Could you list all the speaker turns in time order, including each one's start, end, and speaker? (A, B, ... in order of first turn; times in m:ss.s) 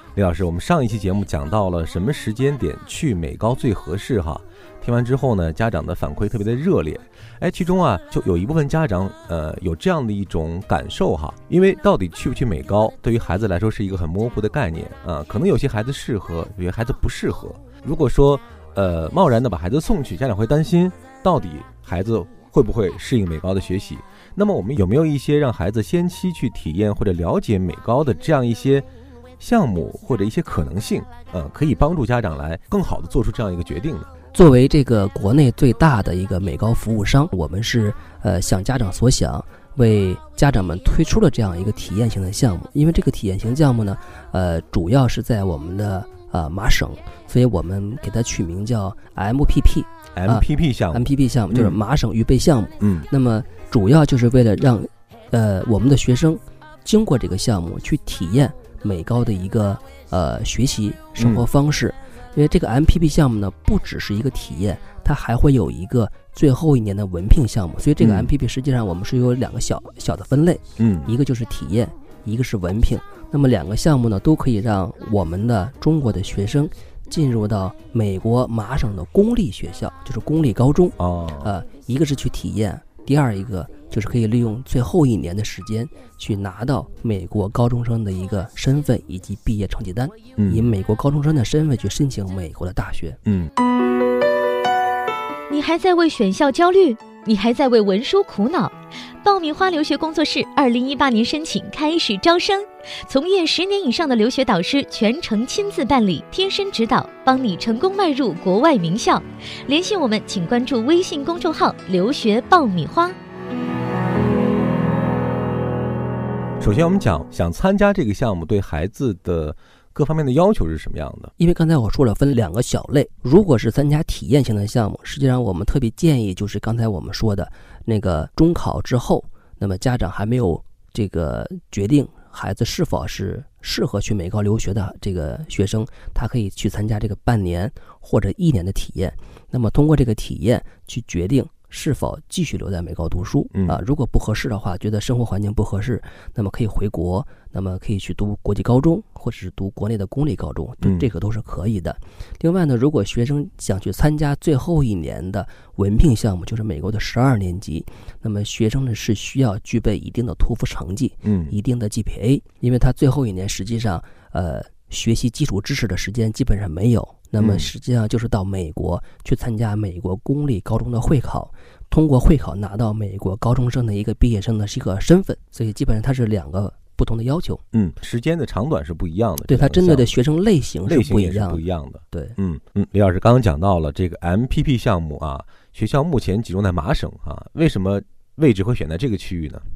0:00.2-0:28.9 A
0:29.4-0:34.1 A
0:34.3-1:33.2 B
0:50.1-0:51.8 A
0:52.8-0:53.1 A
1:01.2-1:01.5 A
1:08.0-1:08.3 A
1:10.8-1:11.1 A
1:21.0-1:21.5 A
1:30.4-1:30.7 A
1:33.2-1:33.5 A
1:35.5-1:53.2 C
1:56.6-2:01.3 A
2:01.4-2:57.6 B
2:23.5-2:23.8 A
2:30.8-2:31.1 A
2:41.2-2:41.6 A
2:47.4-2:47.7 A
2:57.7-3:00.1 A
2:59.4-3:02.4 B
3:00.9-3:09.6 A